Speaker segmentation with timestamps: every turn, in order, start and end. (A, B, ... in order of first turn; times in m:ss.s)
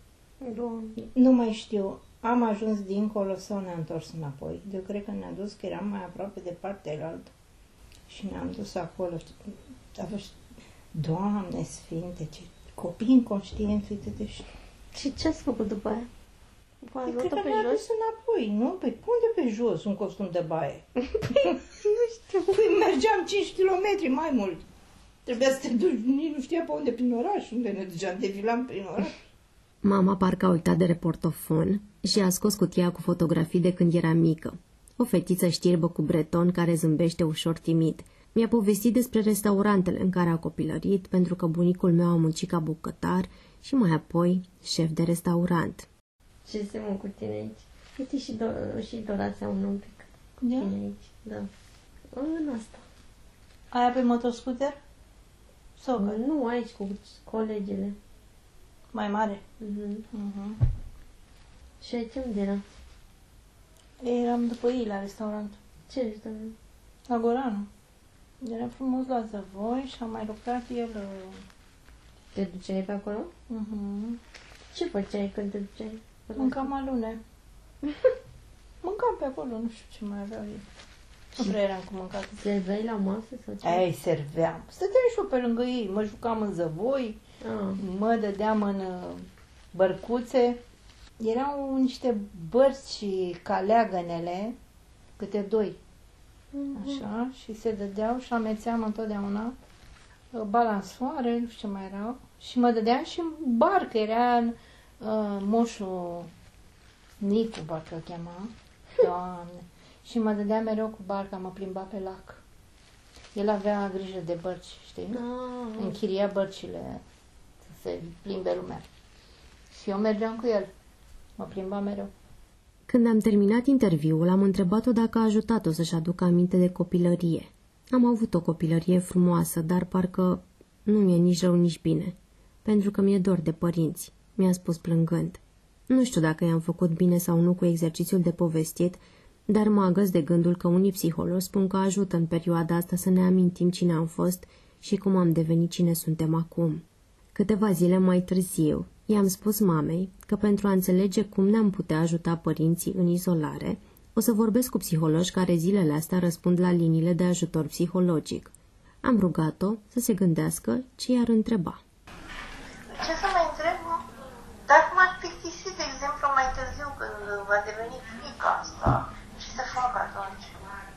0:00.4-0:01.1 A
0:01.1-0:07.3 B
0:08.1-0:10.4 B
0:10.9-0:14.5 B
0:14.9-0:16.1 A
0:16.8-0:17.8 A
0:17.0-0:21.6 B
0:21.0-0:22.6 A
0:22.5-0:24.6 B
0:25.3-0:29.2 B
0:29.8-0:45.9 C
0:46.4-0:50.1 A
0:50.4-0:50.7 B
0:50.6-0:51.5 A
0:52.1-0:52.8 A
0:53.7-0:54.8 B
0:55.8-0:56.2 B
0:56.0-0:58.0 A
0:58.9-0:59.4 B
0:59.6-1:00.0 A
1:00.1-1:00.6 B
1:01.8-1:02.6 A
1:04.0-1:05.6 B
1:05.9-1:06.6 A
1:07.1-1:07.7 B
1:08.4-1:11.4 B
1:12.3-1:13.3 A
1:13.5-1:14.2 B
1:14.7-1:16.7 A
1:16.4-1:17.2 B
1:18.8-1:20.6 B
1:21.4-1:22.4 B
1:22.4-1:23.8 A
1:23.6-1:27.2 B
1:27.4-1:27.8 A
1:27.8-1:30.6 B
1:31.2-1:34.6 B
1:35.2-1:35.8 B
1:36.5-1:37.0 A
1:36.7-1:39.6 B
1:40.3-1:46.3 B
1:47.2-1:52.4 B
1:53.4-1:55.2 B
1:55.1-1:56.0 A
1:55.8-1:57.0 B
1:57.7-1:58.9 B
1:59.7-2:00.7 B
2:01.4-2:02.1 B
2:02.9-2:26.8 C
2:27.4-2:41.8 C
2:42.9-2:44.0 D
2:44.6-2:50.8 D